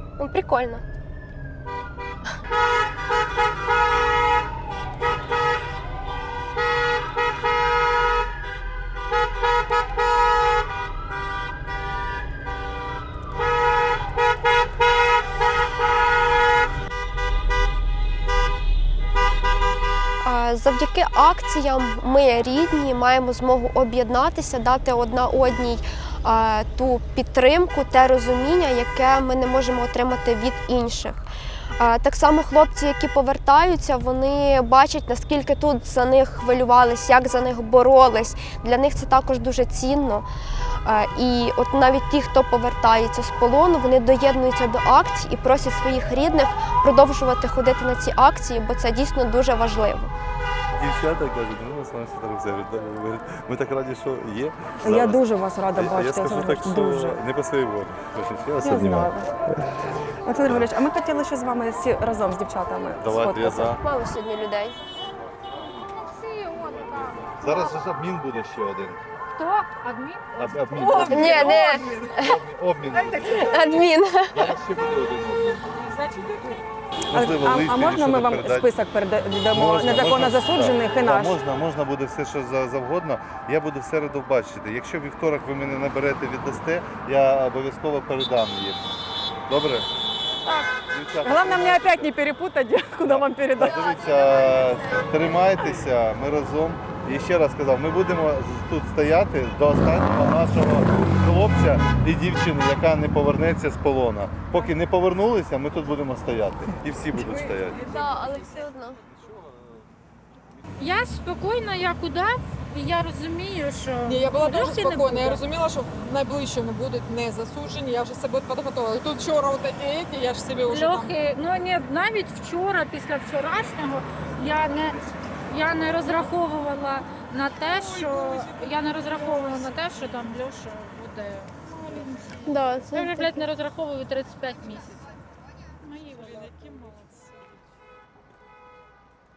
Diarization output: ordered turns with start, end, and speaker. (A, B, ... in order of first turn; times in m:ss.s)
0:00.2-0:00.8 A
0:20.2-0:31.2 A
0:31.8-0:40.2 A
0:40.8-0:50.1 A
0:50.7-0:59.8 B
0:54.8-0:57.2 C
0:58.6-0:59.3 C
1:00.2-1:03.8 C
1:00.4-1:00.7 B
1:03.0-1:03.8 B
1:03.8-1:04.8 A
1:06.1-1:07.2 D
1:06.8-1:09.0 B
1:09.4-1:10.8 D
1:10.4-1:15.7 B
1:10.8-1:12.1 E
1:11.1-1:12.3 A
1:12.9-1:13.4 E
1:13.4-1:14.5 A
1:15.9-1:16.6 E
1:17.1-1:18.7 B
1:17.1-1:21.4 C
1:19.4-1:28.9 B
1:29.5-1:29.9 B
1:30.8-1:32.2 B
1:31.2-1:32.2 C
1:32.5-1:32.8 E
1:33.0-1:33.9 C
1:33.0-1:47.9 B
1:47.1-1:48.5 E
1:47.8-1:49.0 A
1:50.8-1:55.4 D
1:54.0-2:01.2 E
2:00.7-2:15.0 D
2:07.8-2:09.8 E
2:15.8-2:16.4 D
2:16.2-2:17.1 E